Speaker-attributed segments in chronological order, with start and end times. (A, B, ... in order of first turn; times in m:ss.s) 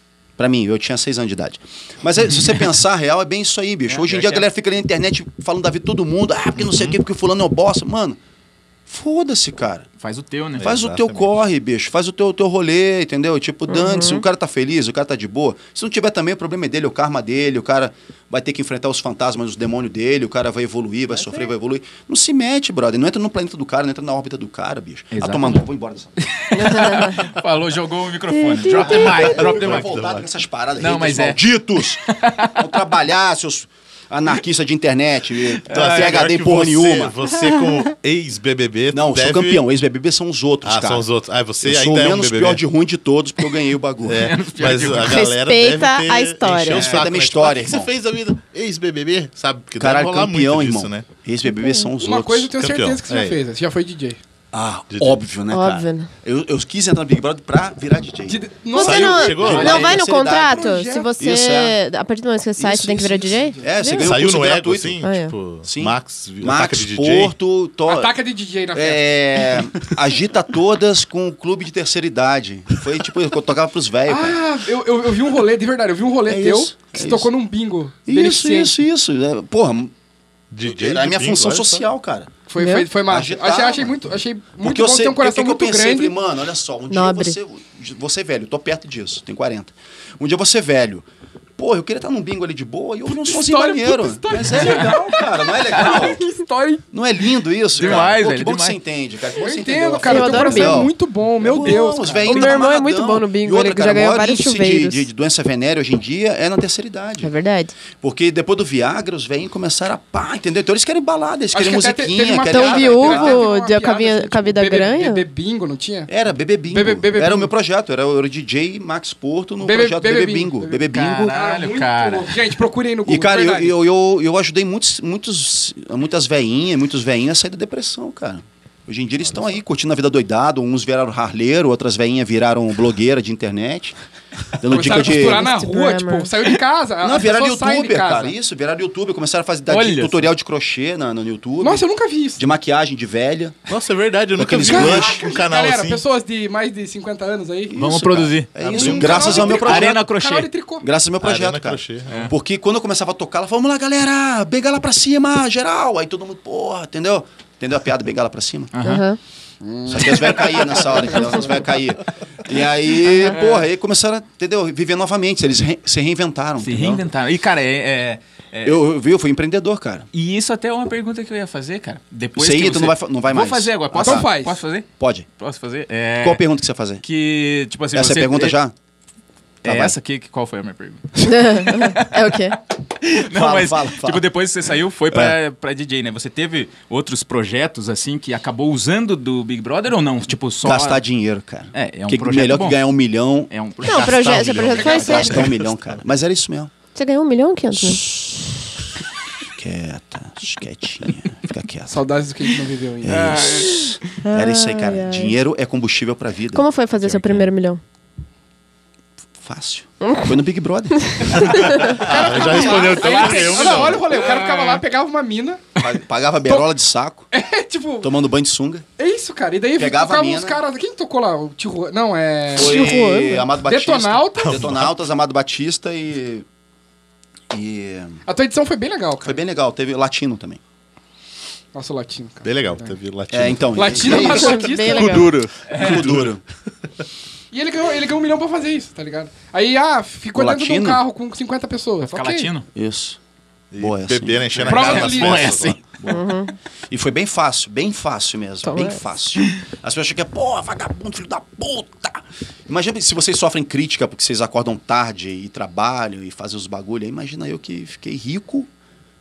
0:00.4-0:08.2 A
0:03.9-0:04.5 B
0:06.6-0:06.8 C
0:08.9-0:09.9 A
0:10.0-0:10.7 B
0:10.6-0:11.4 C
0:10.6-0:26.1 A
0:13.7-0:14.2 D
0:25.1-0:25.6 B
0:26.2-0:30.0 B
0:26.5-0:27.3 D
0:28.3-0:29.1 D
0:28.7-0:37.2 A
0:29.0-0:30.3 C
0:30.8-0:32.7 B
0:35.6-0:36.3 B
0:35.7-0:39.6 C
0:38.9-0:41.1 A
0:40.6-0:42.6 C
0:41.6-0:44.3 A
0:44.0-0:51.1 C
0:44.2-0:45.2 B
0:45.0-0:46.8 D
0:46.7-0:47.0 B
0:46.8-0:47.9 A
0:49.8-0:52.5 A
0:51.6-0:51.9 D
0:52.0-0:54.2 E
0:52.6-0:53.4 C
0:54.5-1:01.8 A
0:54.9-0:55.2 C
0:55.5-0:56.1 D
0:58.3-1:01.1 E
0:58.7-1:04.1 D
0:58.8-1:00.0 C
1:02.6-1:05.0 A
1:03.9-1:07.4 C
1:05.0-1:05.3 D
1:05.6-1:08.1 A
1:07.9-1:09.6 E
1:08.7-1:14.4 A
1:14.1-1:18.8 E
1:16.3-1:17.3 A
1:18.1-1:19.9 A
1:20.5-1:21.8 C
1:20.6-1:22.4 A
1:22.5-1:26.1 E
1:22.6-1:22.9 D
1:23.0-1:24.0 A
1:24.6-1:31.0 A
1:26.9-1:27.4 D
1:31.6-1:36.3 A
1:33.1-1:36.8 E
1:34.4-1:35.0 B
1:35.7-1:36.1 B
1:36.9-1:47.3 A
1:37.8-1:38.8 B
1:39.3-1:42.7 E
1:40.0-1:40.8 D
1:42.2-1:45.1 D
1:47.2-1:47.8 D
1:48.0-1:53.4 A
1:51.5-1:56.1 E
1:52.5-1:55.2 D
1:56.1-2:01.4 A
1:56.7-1:57.5 E
1:59.6-2:03.7 E
2:00.9-2:02.5 B
2:03.1-2:14.0 A
2:14.6-2:15.5 A
2:14.7-2:18.4 E
2:15.1-2:16.3 D
2:17.0-2:21.8 A
2:19.7-2:20.3 B
2:21.6-2:22.4 E
2:22.4-2:23.6 A
2:23.7-2:26.0 C
2:24.4-2:25.2 A
2:24.5-2:27.8 E
2:27.7-2:30.0 A
2:27.8-2:30.5 B
2:28.6-2:29.5 C
2:28.8-2:30.9 E
2:30.8-2:38.7 A
2:31.2-2:32.3 C
2:38.7-2:39.0 B
2:38.8-2:39.2 D
2:39.6-2:41.5 E
2:39.9-2:47.0 A
2:43.3-2:43.6 B
2:46.6-2:48.8 B
2:48.6-2:50.1 A
2:50.1-2:54.9 B
2:52.4-2:54.3 A
2:53.9-2:54.6 E
2:55.0-2:55.2 A
2:55.4-2:56.4 B
2:56.2-2:57.0 A
2:57.0-2:58.6 B
2:57.9-2:58.7 A
2:59.6-3:11.0 B
2:59.6-2:59.9 A
3:01.2-3:02.6 D
3:03.3-3:04.2 A
3:10.6-3:13.5 A
3:11.7-3:12.9 B
3:13.5-3:15.5 B
3:13.8-3:15.4 D
3:13.8-3:16.0 C
3:14.8-3:15.2 E
3:14.9-3:16.7 A
3:16.9-3:18.0 D
3:17.7-3:18.6 A
3:19.5-3:22.0 A
3:21.9-3:23.4 E
3:23.0-3:26.6 A
3:23.0-3:23.9 B
3:24.2-3:25.4 D
3:26.5-3:27.8 D
3:29.4-3:31.7 A
3:31.2-3:31.8 D
3:31.4-3:34.0 C
3:31.9-3:35.6 E
3:32.4-3:34.8 B
3:35.8-3:37.3 A
3:37.3-3:38.1 E
3:38.0-3:38.8 A
3:39.0-3:43.0 E
3:39.8-3:40.6 A
3:42.5-3:46.5 A
3:42.6-3:43.5 D
3:43.6-3:44.6 E
3:44.4-3:44.9 C
3:47.5-3:48.2 A
3:48.2-3:49.4 E
3:49.2-3:50.6 A
3:51.7-3:52.9 E
3:52.4-3:54.2 C
3:53.3-3:56.4 A
3:53.8-3:55.4 E
3:54.1-3:55.3 D
3:55.7-3:56.1 B
3:55.8-3:56.4 C
3:57.5-4:02.5 E
4:00.4-4:01.0 A
4:02.0-4:02.7 B
4:02.7-4:03.2 A
4:03.7-4:05.8 C
4:03.8-4:06.3 A
4:04.6-4:05.5 E
4:05.0-4:05.8 B
4:06.1-4:06.5 D
4:06.9-4:18.7 A
4:08.6-4:09.0 D